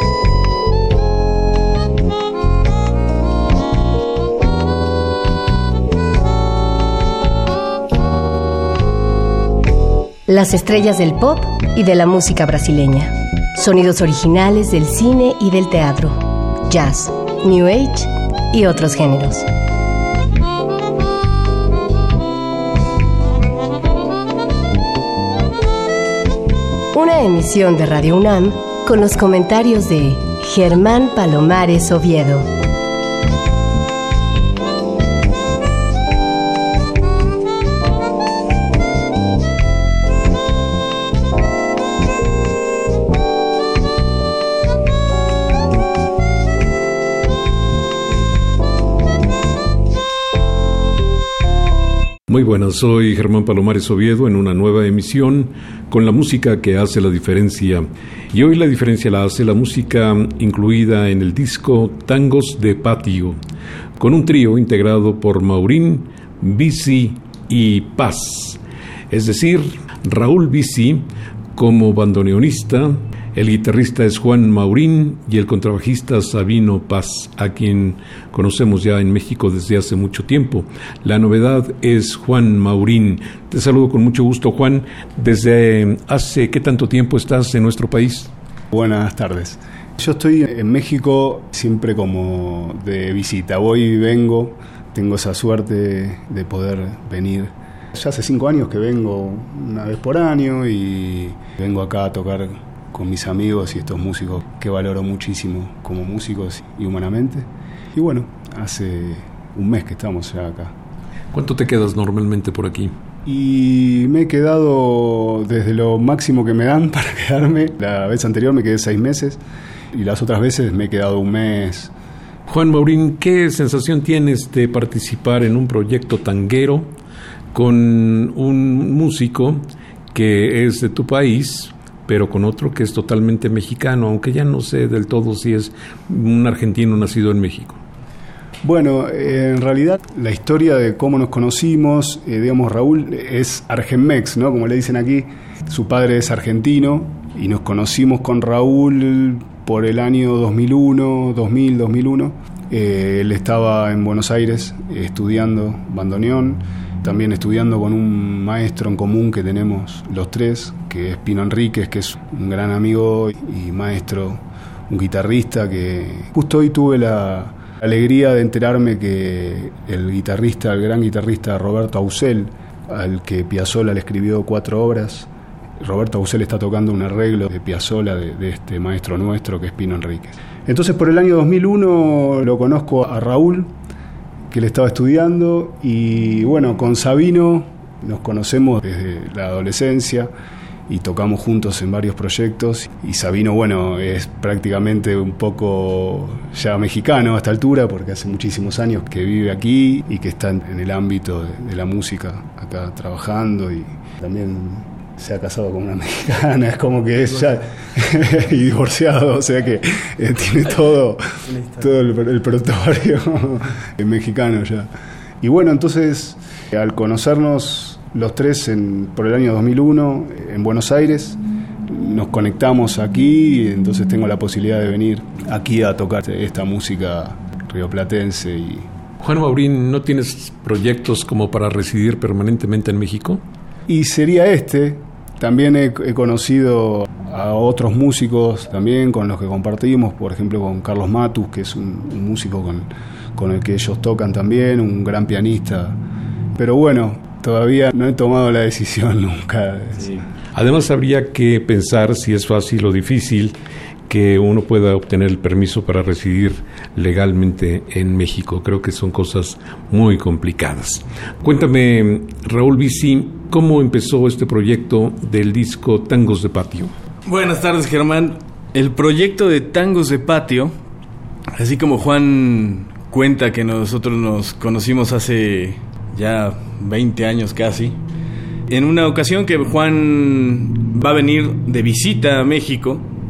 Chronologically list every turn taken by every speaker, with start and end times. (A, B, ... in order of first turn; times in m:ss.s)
0:10.3-0:19.5 A
0:26.9-0:32.5 A
0:52.3-1:03.4 B
1:04.0-1:28.3 B
1:28.7-1:50.7 C
1:51.3-1:52.9 B
1:53.3-1:59.4 C
1:59.9-2:01.9 C
2:02.5-2:06.9 B
2:07.5-2:17.8 B
2:18.6-2:55.3 C
2:55.8-3:03.7 C
3:04.5-3:10.3 C
3:10.9-3:31.2 C
3:31.7-3:34.9 C
3:35.4-3:48.9 C
3:49.2-3:53.4 B
3:53.9-4:06.0 C
4:06.6-4:10.2 C
4:10.5-4:13.6 B
4:14.1-4:26.9 B
4:27.3-4:30.7 D
4:31.6-4:38.0 D
4:38.7-4:43.1 D